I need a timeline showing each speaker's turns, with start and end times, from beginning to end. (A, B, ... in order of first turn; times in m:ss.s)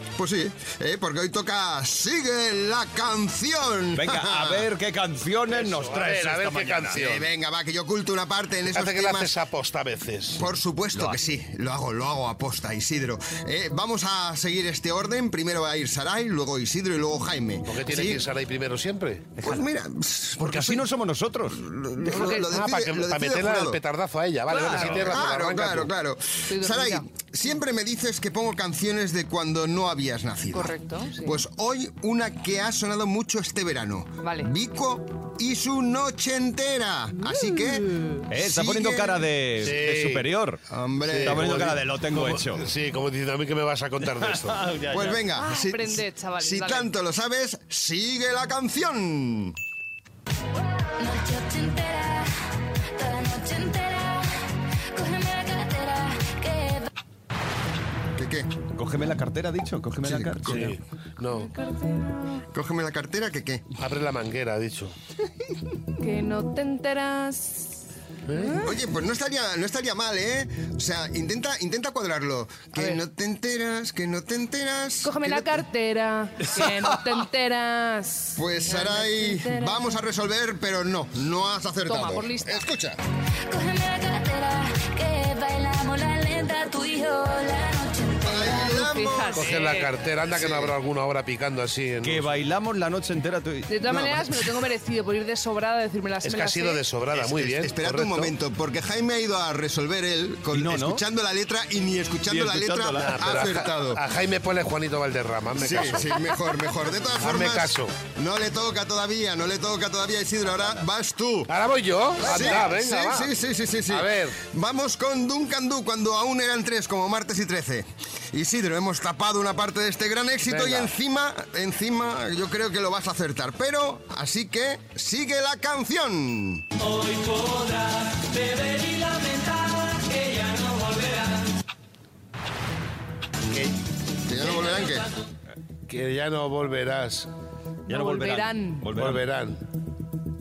0:00.2-0:04.7 A
0:03.9-0:07.0 B
0:05.5-0:07.2 C
0:07.0-0:09.4 A
0:08.7-0:10.4 C
0:10.4-0:18.2 A
0:17.7-0:19.3 C
0:19.4-0:19.7 B
0:19.4-0:20.9 A
0:20.4-0:21.6 B
0:21.5-0:23.8 A
0:22.0-0:25.9 C
0:24.5-0:25.2 B
0:24.7-0:39.3 A
0:26.5-0:27.0 D
0:30.5-0:31.4 D
0:34.2-0:34.5 D
0:38.3-0:40.6 B
0:39.6-0:40.3 C
0:40.7-0:41.7 A
0:41.1-0:44.6 C
0:41.2-0:42.7 B
0:44.1-0:45.2 B
0:44.9-0:49.6 A
0:45.3-0:46.9 D
0:51.0-0:52.3 E
0:53.0-0:54.4 E
0:54.9-0:56.9 E
0:58.2-0:58.5 A
0:58.7-1:00.8 B
1:00.0-1:00.6 A
1:00.4-1:01.5 C
1:01.5-1:02.4 D
1:02.5-1:03.7 A
1:03.8-1:05.0 C
1:06.0-1:07.7 D
1:08.3-1:08.6 C
1:08.4-1:08.7 D
1:08.5-1:15.6 A
1:15.0-1:20.0 D
1:18.4-1:23.0 A
1:21.8-1:22.7 D
1:23.5-1:28.8 E
1:28.2-1:29.8 A
1:28.7-1:29.9 D
1:29.4-1:32.4 C
1:30.3-1:30.7 A
1:32.0-1:34.5 B
1:33.7-1:36.8 D
1:36.2-1:38.3 C
1:37.2-1:44.0 A
1:40.5-1:41.0 B
1:42.3-1:43.5 B
1:43.0-1:46.2 C
1:45.6-1:51.5 A
1:47.2-1:47.9 C
1:50.5-1:50.8 B
1:51.5-1:53.3 C
1:52.2-2:06.6 A
1:52.2-1:52.7 B
1:53.9-1:54.4 C
2:00.4-2:00.9 C
2:13.5-2:13.8 C
2:14.2-2:15.1 A
2:15.9-2:17.3 C
2:17.9-2:18.9 D
2:17.9-2:19.2 B
2:18.9-2:19.6 C